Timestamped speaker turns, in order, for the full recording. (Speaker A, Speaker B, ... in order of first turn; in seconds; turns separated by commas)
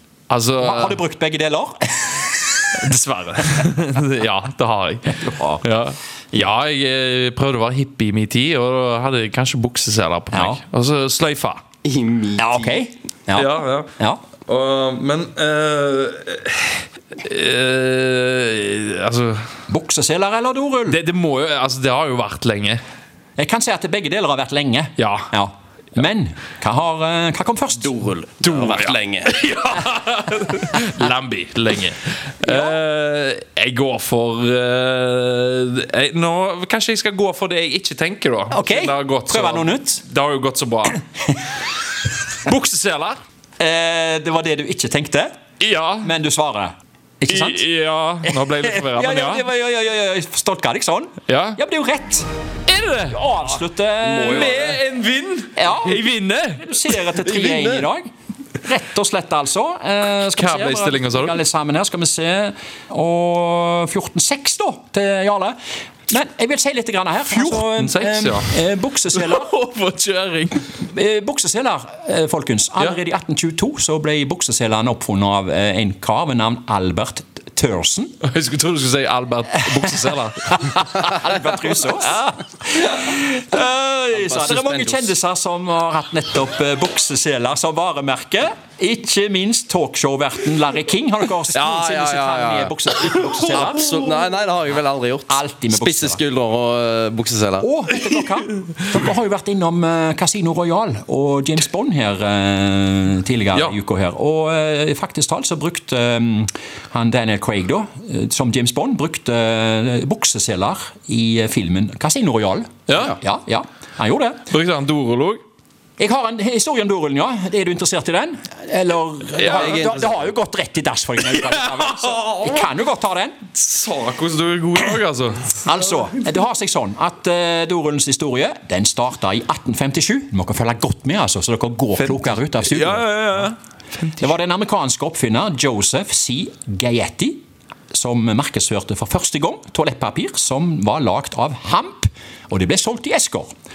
Speaker A: 0.3-1.0, Speaker B: 0.6-2.5, Speaker A: 2.7-11.6, Speaker B: 5.2-5.6, Speaker B: 10.3-10.6, Speaker C: 11.8-12.8, Speaker B: 12.4-14.2, Speaker A: 13.3-13.9, Speaker A: 14.4-19.5, Speaker B: 19.7-21.0, Speaker A: 20.9-22.8, Speaker B: 23.4-28.0, Speaker A: 25.0-25.3, Speaker C: 27.7-29.3, Speaker A: 28.4-41.0, Speaker B: 38.5-40.0, Speaker A: 42.4-43.2, Speaker B: 43.6-45.3, Speaker A: 45.6-46.1, Speaker B: 46.0-47.6, Speaker A: 47.3-49.4, Speaker B: 48.2-52.3, Speaker A: 51.3-51.6, Speaker A: 52.7-53.5, Speaker B: 53.1-54.8, Speaker C: 54.0-54.8, Speaker A: 54.0-57.0, Speaker B: 55.5-56.0, Speaker B: 56.6-65.5, Speaker C: 57.3-57.8, Speaker A: 60.3-61.4, Speaker B: 66.1-69.5, Speaker A: 67.3-68.5, Speaker A: 69.1-70.7, Speaker B: 70.8-78.2, Speaker A: 78.2-81.1, Speaker B: 80.5-94.2, Speaker A: 82.0-83.2, Speaker C: 84.1-85.1, Speaker C: 91.5-97.7, Speaker A: 93.6-93.9, Speaker B: 95.3-96.2, Speaker B: 97.6-114.5, Speaker A: 112.9-113.2, Speaker A: 114.5-115.4, Speaker B: 116.0-123.4, Speaker A: 119.4-119.8, Speaker C: 119.6-120.2, Speaker A: 121.3-122.7, Speaker A: 123.5-125.7, Speaker B: 125.6-133.5, Speaker A: 132.0-134.3, Speaker B: 134.2-143.5